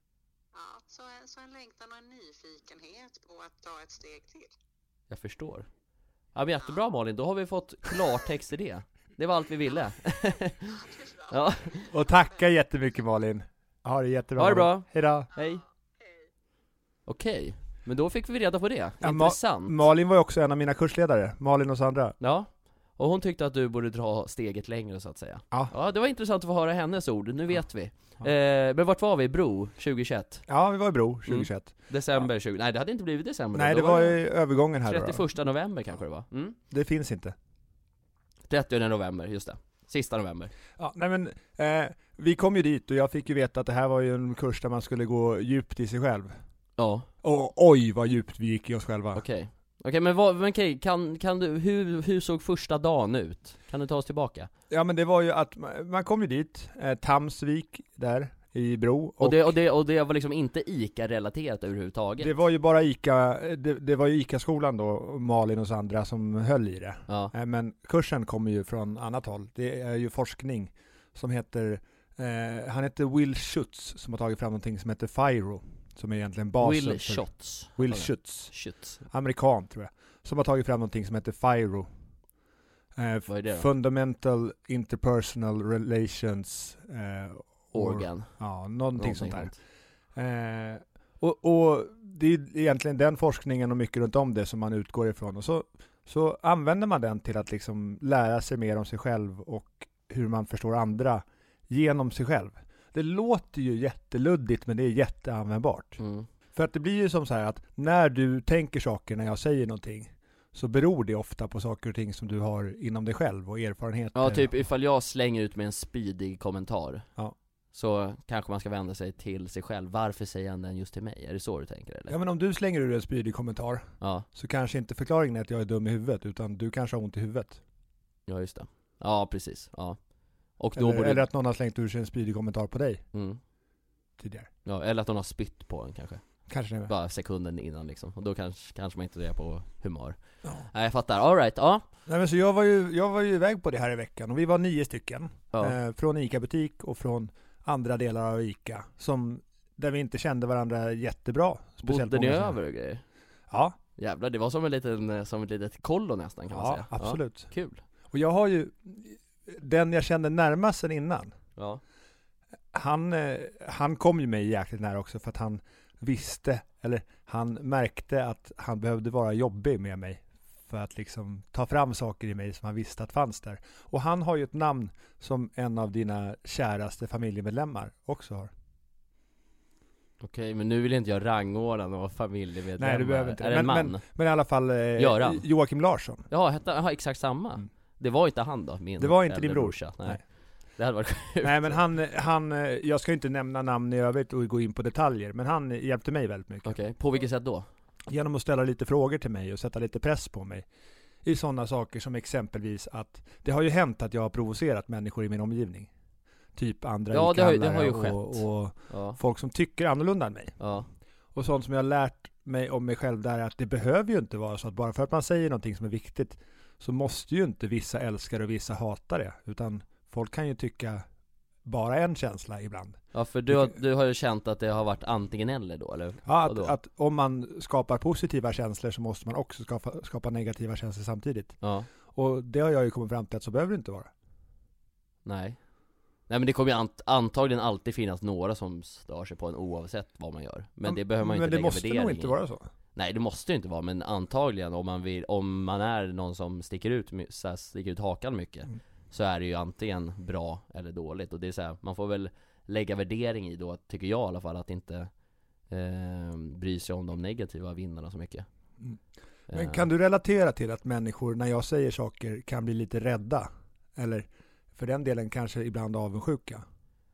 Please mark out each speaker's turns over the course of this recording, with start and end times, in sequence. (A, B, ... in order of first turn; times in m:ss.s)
0:00.5-0:04.5 A
0:05.1-0:05.7 B
0:06.3-0:11.9 B
0:10.8-0:11.9 A
0:11.9-0:15.3 C
0:14.4-0:15.6 B
0:15.4-0:16.2 A
0:17.1-0:19.8 B
0:19.0-0:22.2 C
0:22.2-0:30.4 B
0:30.5-0:31.8 C
0:31.3-0:34.2 B
0:33.5-0:35.2 C
0:34.8-0:36.6 B
0:36.7-0:37.3 C
0:38.5-0:40.5 B
0:40.8-0:46.3 C
0:46.8-0:47.1 B
0:47.2-0:49.2 C
0:49.1-0:54.5 B
0:54.7-0:59.5 C
0:59.2-1:02.3 B
1:02.2-1:18.5 C
1:07.1-1:07.3 B
1:16.6-1:19.0 B
1:19.0-1:21.9 C
1:23.0-1:29.5 C
1:23.3-1:23.6 B
1:27.7-1:28.3 B
1:29.0-1:29.6 B
1:30.1-1:46.0 C
1:46.0-1:46.3 B
1:46.5-1:54.5 C
1:54.1-1:57.0 B
1:57.7-2:02.1 B
2:02.1-2:07.6 C
2:04.0-2:04.2 B
2:08.3-2:10.0 B
2:10.6-2:11.2 B
2:10.7-2:13.0 C
2:13.1-2:13.4 B
2:14.2-2:14.5 C
2:14.6-2:16.2 B
2:16.5-2:16.9 C
2:16.9-2:21.8 B
2:22.1-2:32.6 C
2:31.8-2:33.0 B
2:33.5-2:33.8 C
2:34.0-2:37.8 B
2:36.5-2:37.5 C
2:38.1-2:41.3 C
2:42.7-2:58.5 C
3:00.2-3:04.0 B
3:02.8-3:06.3 C
3:05.0-3:05.4 B
3:06.3-3:10.2 B
3:09.0-3:10.2 C
3:10.8-3:11.8 B
3:11.4-3:16.8 C
3:16.6-3:17.7 B
3:18.1-3:20.6 C
3:21.2-3:25.9 C
3:26.5-3:30.6 C
3:27.1-3:29.2 B
3:30.6-3:30.9 B
3:31.3-3:41.0 C
3:41.6-3:43.0 C
3:43.1-3:46.8 B
3:46.2-3:51.6 C
3:51.6-3:51.9 B
3:52.1-3:54.1 C
3:55.2-3:55.6 B
3:56.3-4:02.3 B
4:00.8-4:02.7 C
4:02.9-4:15.1 B
4:15.7-4:18.4 B
4:19.5-4:19.8 B
4:19.5-4:26.6 C